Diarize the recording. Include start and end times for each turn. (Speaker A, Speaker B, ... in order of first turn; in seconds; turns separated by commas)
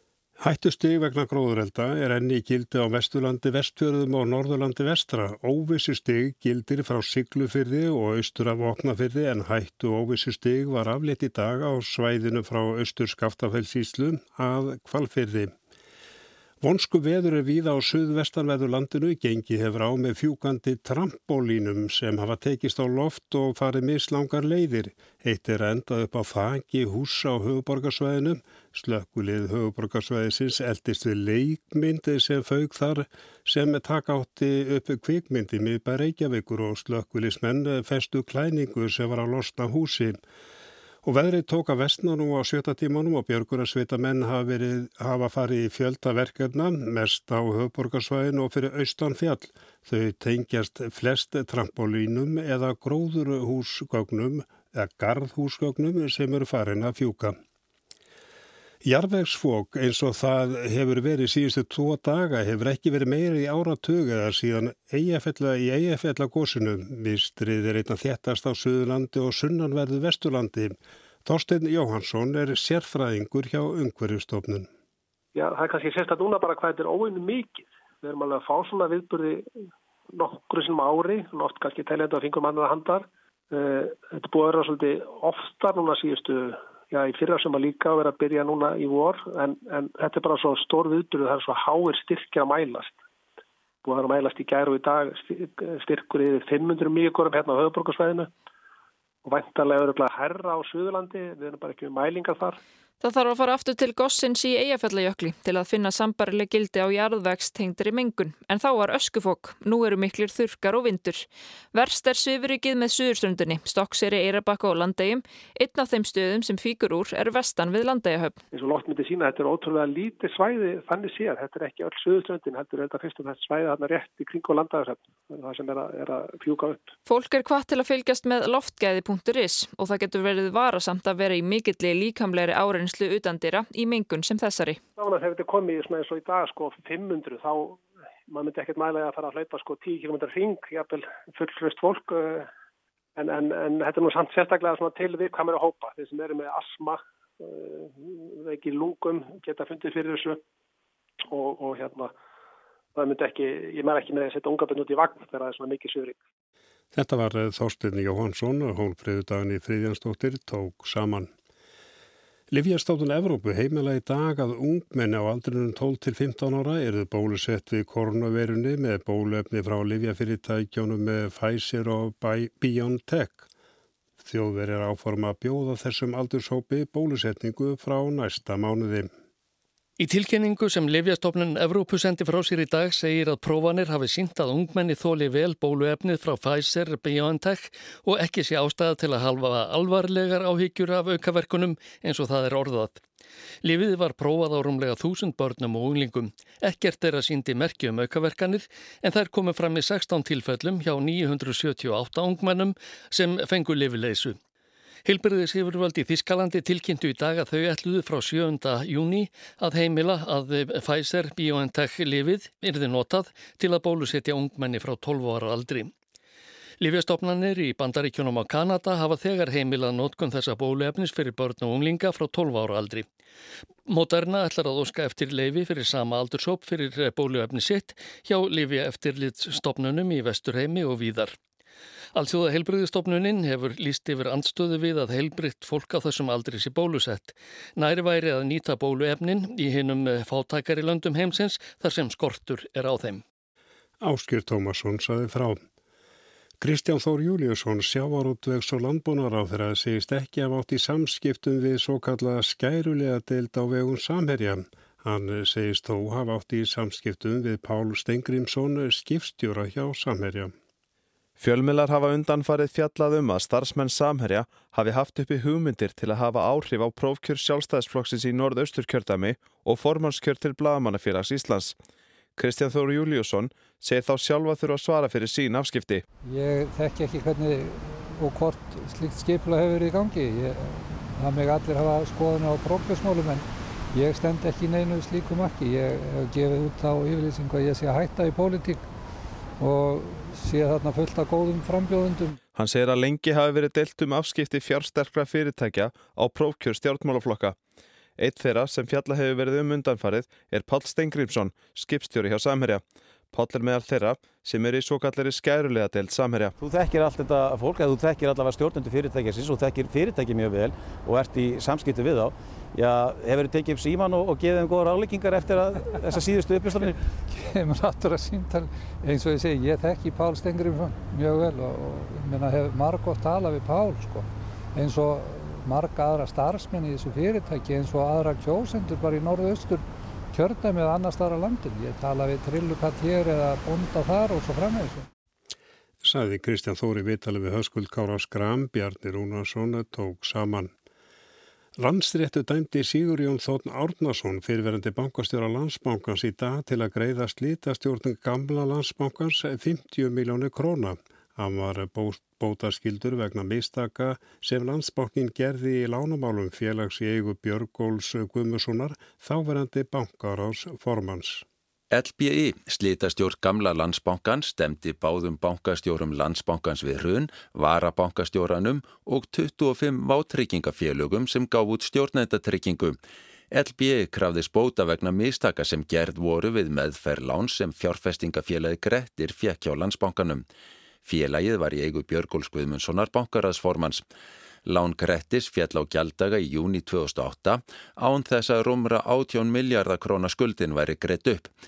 Speaker A: 0.4-15.5, Speaker A: 16.6-40.2, Speaker A: 41.0-57.4, Speaker A: 58.8-74.7, Speaker B: 75.3-79.5, Speaker B: 80.1-93.0, Speaker B: 93.8-98.3, Speaker B: 99.2-102.6, Speaker C: 103.0-118.4, Speaker B: 118.5-126.9, Speaker C: 127.0-134.8, Speaker B: 135.0-142.5, Speaker B: 143.2-150.4, Speaker B: 151.3-152.1, Speaker B: 152.9-156.2, Speaker A: 156.9-161.3, Speaker A: 162.5-173.5, Speaker A: 174.2-179.1, Speaker D: 180.0-193.0, Speaker D: 193.6-204.4, Speaker D: 205.0-215.9, Speaker D: 216.8-223.1, Speaker D: 223.9-231.4, Speaker D: 232.1-243.2, Speaker A: 244.0-245.6, Speaker A: 246.6-260.5, Speaker E: 261.4-271.8, Speaker E: 272.4-276.0, Speaker F: 276.2-288.9, Speaker F: 289.6-292.4, Speaker E: 292.5-297.6, Speaker E: 298.2-306.6, Speaker G: 306.6-316.9, Speaker F: 317.3-335.1, Speaker A: 336.0-340.7, Speaker A: 341.8-361.4, Speaker H: 361.9-373.0, Speaker H: 373.5-380.4, Speaker H: 381.0-384.0, Speaker H: 384.6-391.5